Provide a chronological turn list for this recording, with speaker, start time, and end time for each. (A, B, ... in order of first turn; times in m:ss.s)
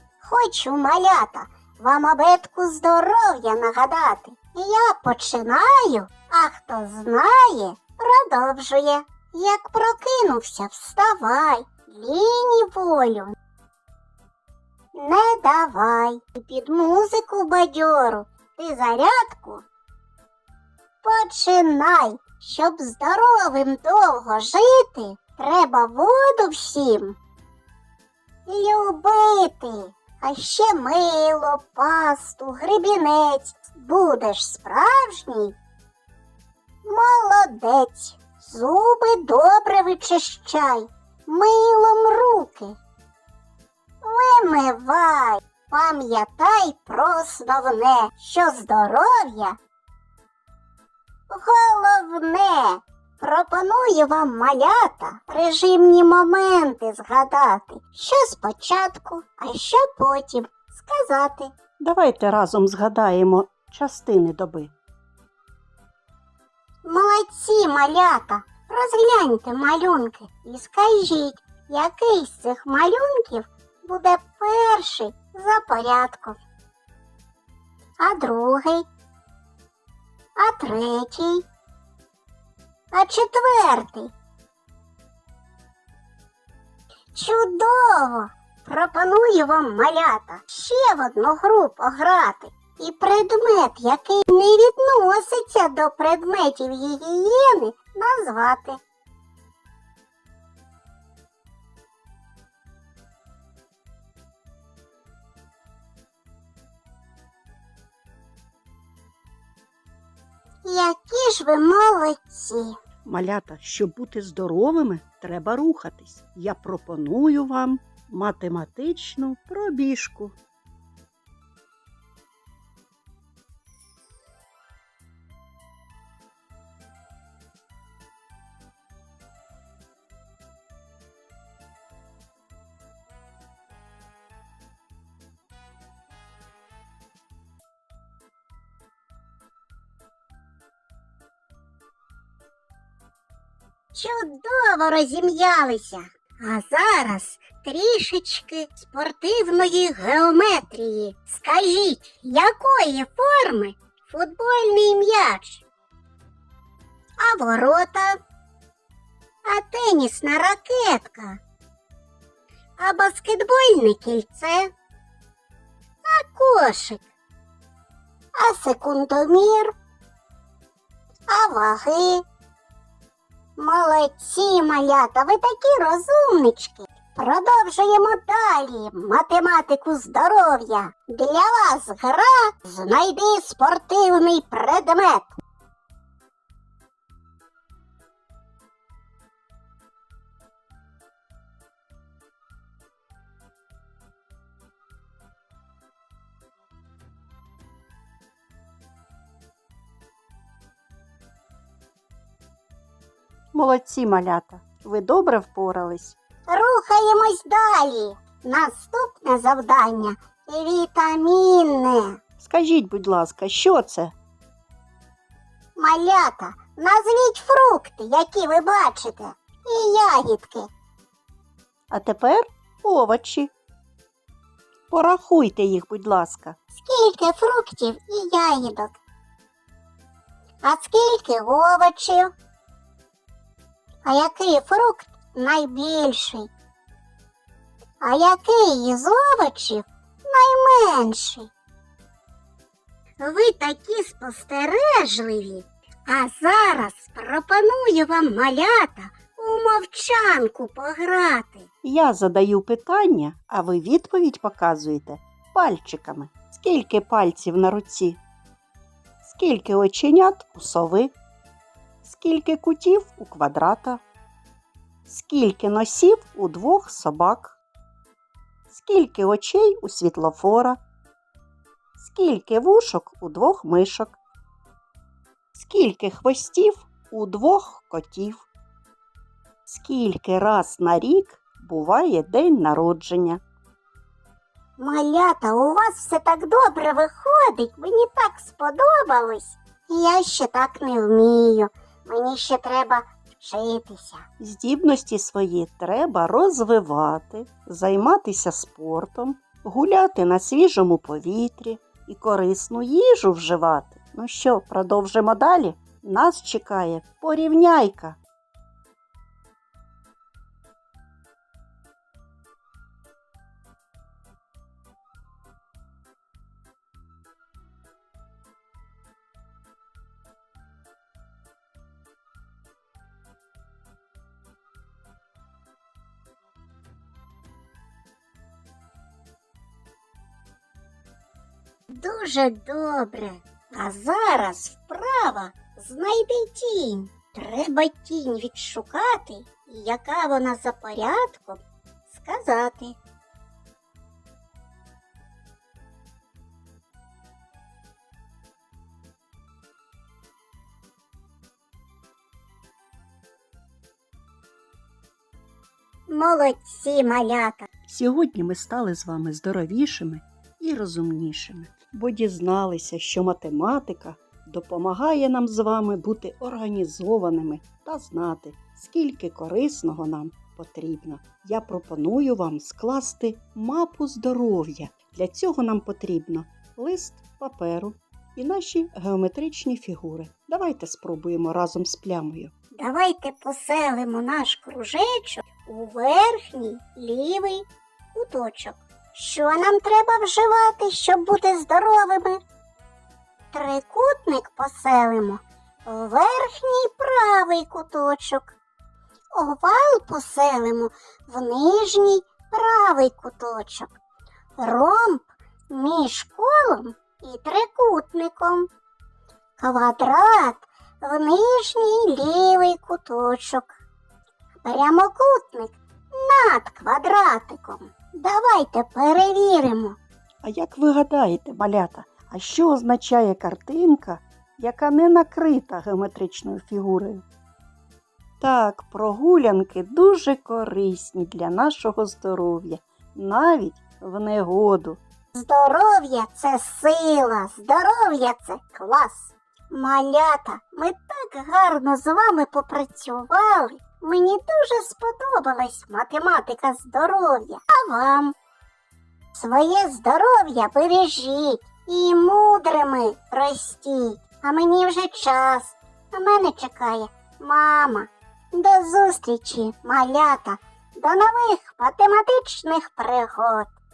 0:00.2-0:13.4 A
0:15.0-0:19.6 A
0:21.0-0:27.2 A
0:28.5-0:35.6 A
0:36.8-0:42.8 A
0:44.0-0:49.6 A
0:51.3-1:01.5 A
1:01.8-1:04.7 B
1:06.8-1:16.4 A
1:18.0-1:18.8 A
1:20.4-1:21.4 A
1:22.9-1:24.1 A
1:27.1-1:38.8 A
1:50.6-1:52.8 A
1:53.0-2:00.4 B
2:23.9-2:35.6 A
2:37.2-2:38.2 A
2:39.5-2:41.4 A
2:42.8-2:44.7 A
2:46.1-2:47.0 A
2:48.4-2:49.7 A
2:51.3-2:52.2 A
2:53.6-3:05.4 A
3:23.5-3:26.2 B
3:26.5-3:32.2 A
3:32.4-3:34.1 B
3:35.8-3:40.7 A
3:41.9-3:43.5 B
3:44.9-3:46.6 B
3:46.7-3:49.0 A
3:50.6-3:52.3 A
3:54.0-3:56.5 A
3:58.0-4:01.5 A
4:03.2-4:11.7 A
4:11.8-4:18.2 B
4:19.2-4:21.2 B
4:22.0-4:24.0 B
4:25.1-4:27.6 B
4:28.7-4:30.8 B
4:32.0-4:34.2 B
4:35.5-4:38.5 B
4:39.7-4:43.4 B
4:44.8-4:54.2 A
4:54.4-5:08.2 B
5:31.9-5:43.0 A
5:56.1-5:57.7 A
5:57.9-6:22.5 B
6:22.7-6:32.4 A
6:33.5-6:38.6 A
6:39.4-6:43.9 A
6:44.6-6:48.7 A
6:49.6-6:53.8 A
6:54.6-7:00.0 A
7:00.4-7:07.2 B
7:08.4-7:15.0 B
7:15.3-7:28.3 A
7:29.3-7:43.7 A